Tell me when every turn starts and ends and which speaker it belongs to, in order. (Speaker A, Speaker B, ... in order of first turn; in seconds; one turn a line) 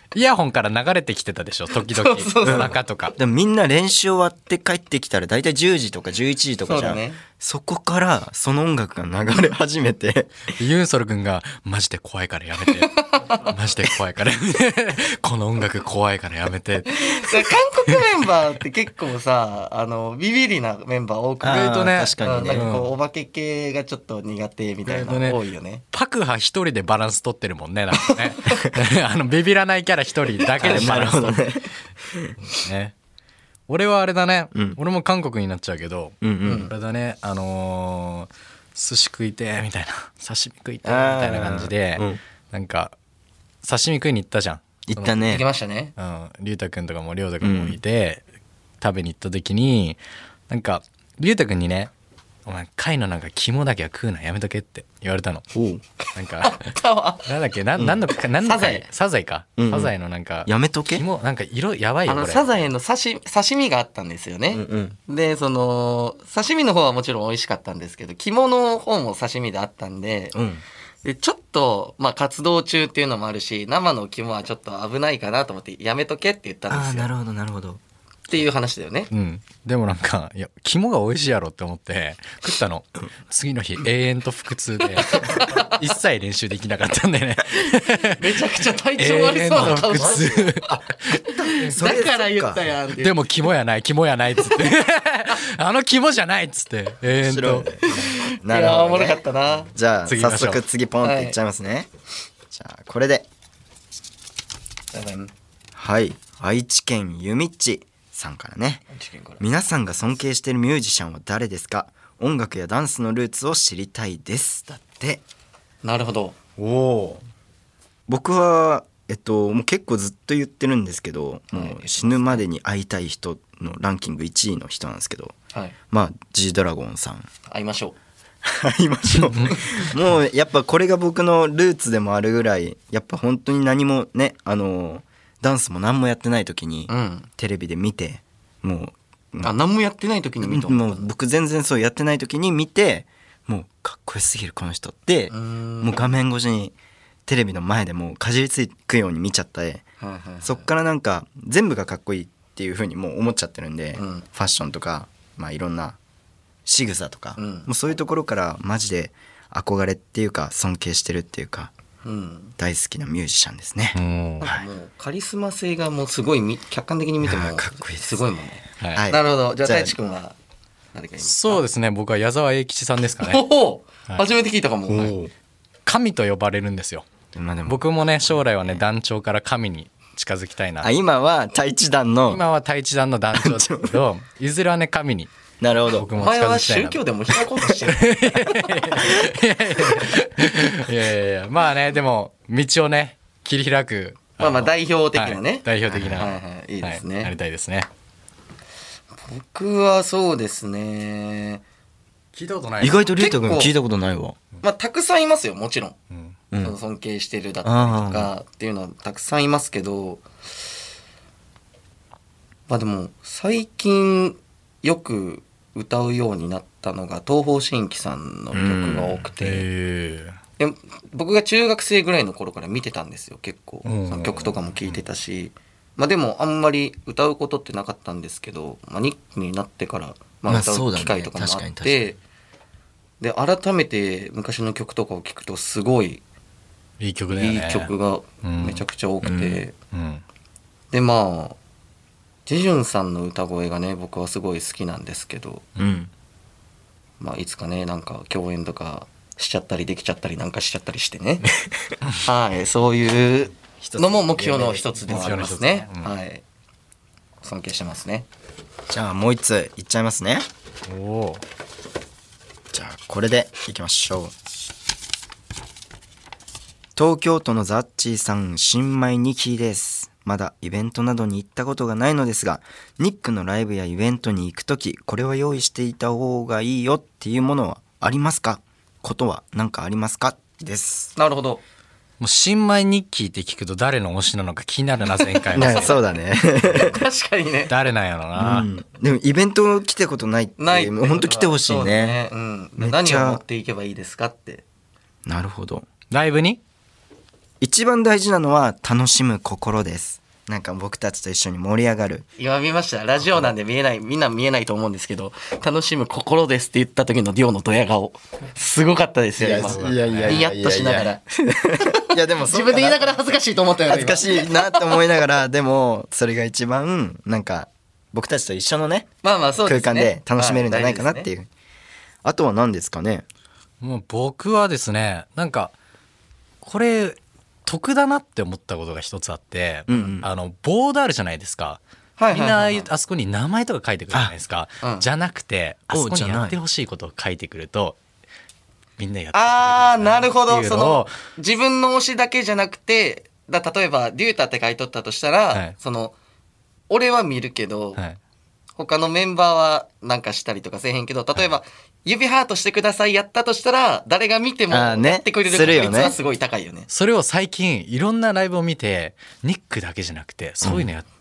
Speaker A: 0.1-3.1
Speaker B: 1.8-2.7
Speaker C: 2.4-10.5
Speaker B: 6.7-7.2
Speaker A: 10.6-17.1
Speaker B: 13.1-13.4
Speaker B: 16.9-25.8
Speaker C: 21.4-22.7
Speaker A: 21.4-22.9
Speaker A: 24.9-25.4
Speaker A: 25.9-31.4
Speaker C: 30.6-32.4
Speaker B: 30.6-31.0
Speaker A: 32.5-32.9
Speaker A: 33.7-43.0
Speaker C: 34.5-34.8
Speaker C: 36.2-36.7
Speaker B: 36.5-36.7
Speaker C: 40.8-42.2
Speaker A: 43.6-45.4
Speaker C: 44.9-45.4
Speaker B: 45.3-45.9
Speaker A: 46.0-48.2
Speaker C: 47.4-47.8
Speaker A: 48.8-51.9
Speaker A: 52.5-55.5
Speaker C: 55.5-55.8
Speaker A: 56.2-56.7
Speaker B: 56.4-57.3
Speaker A: 57.2-62.5
Speaker C: 57.8-58.0
Speaker B: 58.4-58.9
Speaker C: 59.6-59.9
Speaker C: 60.5-61.1
Speaker B: 62.1-70.4
Speaker C: 64.5-65.0
Speaker C: 70.3-70.6
Speaker B: 71.0-77.1
Speaker C: 76.7-77.8
Speaker B: 78.3-79.1
Speaker A: 79.1-88.3
Speaker B: 85.0-85.7
Speaker B: 88.1-90.3
Speaker A: 89.0-90.7
Speaker C: 89.5-92.7
Speaker B: 91.5-93.2
Speaker A: 93.0-97.8
Speaker C: 97.2-97.9
Speaker B: 97.9-99.7
Speaker C: 98.4-101.9
Speaker A: 100.1-100.6
Speaker B: 101.0-101.4
Speaker C: 102.5-103.3
Speaker B: 104.9-105.3
Speaker C: 105.8-108.8
Speaker B: 108.9-109.4
Speaker C: 109.4-115.2
Speaker B: 115.8-116.4
Speaker A: 116.6-117.2
Speaker C: 118.1-125.3
Speaker B: 121.5-122.4
Speaker C: 125.9-127.3
Speaker B: 127.5-128.0
Speaker C: 128.4-139.5
Speaker B: 136.9-137.3
Speaker B: 139.4-141.1
Speaker C: 140.4-146.7
Speaker B: 145.3-146.1
Speaker C: 147.3-149.9
Speaker B: 150.0-150.7
Speaker C: 150.4-156.0
Speaker B: 154.0-154.2
Speaker C: 156.7-161.7
Speaker B: 157.4-157.7
Speaker B: 162.0-162.5
Speaker C: 162.6-164.7
Speaker A: 163.9-164.5
Speaker B: 164.4-170.4
Speaker C: 167.2-168.3
Speaker A: 168.8-169.1
Speaker C: 168.8-169.9
Speaker B: 170.9-171.7
Speaker A: 171.2-173.4
Speaker B: 173.2-175.2
Speaker C: 174.9-175.3
Speaker A: 175.9-177.1
Speaker C: 177.3-178.8
Speaker A: 177.7-180.9
Speaker C: 180.8-182.4
Speaker A: 182.3-185.3
Speaker C: 183.4-183.9
Speaker C: 185.6-186.1
Speaker A: 185.9-187.0
Speaker B: 186.2-189.0
Speaker A: 188.0-197.9
Speaker B: 194.4-197.3
Speaker B: 199.2-201.6
Speaker A: 202.3-203.0
Speaker C: 202.8-204.4
Speaker B: 203.2-203.7
Speaker B: 204.6-206.0
Speaker A: 206.1-206.4
Speaker C: 206.5-206.8
Speaker B: 206.6-210.2
Speaker C: 207.6-208.3
Speaker B: 212.7-219.7
Speaker C: 218.5-219.3
Speaker A: 219.4-220.4
Speaker B: 220.6-232.2
Speaker A: 223.8-224.6
Speaker C: 230.5-232.1
Speaker B: 233.2-236.2
Speaker A: 237.0-237.9
Speaker B: 237.3-239.7
Speaker A: 238.4-238.8
Speaker C: 239.2-239.6
Speaker A: 239.9-240.2
Speaker B: 240.9-241.6
Speaker B: 242.5-245.6
Speaker C: 245.8-246.1
Speaker B: 247.2-251.5
Speaker B: 252.2-256.4
Speaker C: 253.8-255.6
Speaker A: 255.0-256.1
Speaker B: 257.4-258.3
Speaker C: 258.9-260.5
Speaker A: 260.9-261.4
Speaker C: 262.7-264.3
Speaker C: 267.0-281.1
Speaker B: 281.2-281.6
Speaker A: 282.2-286.0
Speaker C: 285.5-287.0
Speaker B: 285.6-285.9
Speaker B: 286.7-287.7
Speaker A: 287.7-288.7
Speaker C: 288.4-292.2
Speaker B: 290.6-294.6
Speaker C: 292.8-293.4
Speaker C: 295.3-295.9
Speaker A: 296.1-296.6
Speaker C: 297.6-302.3
Speaker B: 302.4-311.2
Speaker C: 303.3-303.5
Speaker C: 309.4-313.1
Speaker A: 309.6-310.5
Speaker B: 312.4-315.0
Speaker C: 313.9-319.1
Speaker B: 319.2-321.3
Speaker C: 319.6-321.5
Speaker C: 322.2-323.3
Speaker A: 323.8-325.7
Speaker A: 326.6-338.0
Speaker C: 329.9-330.3
Speaker B: 332.2-332.9
Speaker B: 334.8-335.1
Speaker C: 335.9-336.6
Speaker A: 339.0-341.1
Speaker B: 339.3-346.1
Speaker B: 346.9-348.0
Speaker B: 348.8-356.9
Speaker C: 354.7-356.2
Speaker A: 356.9-361.1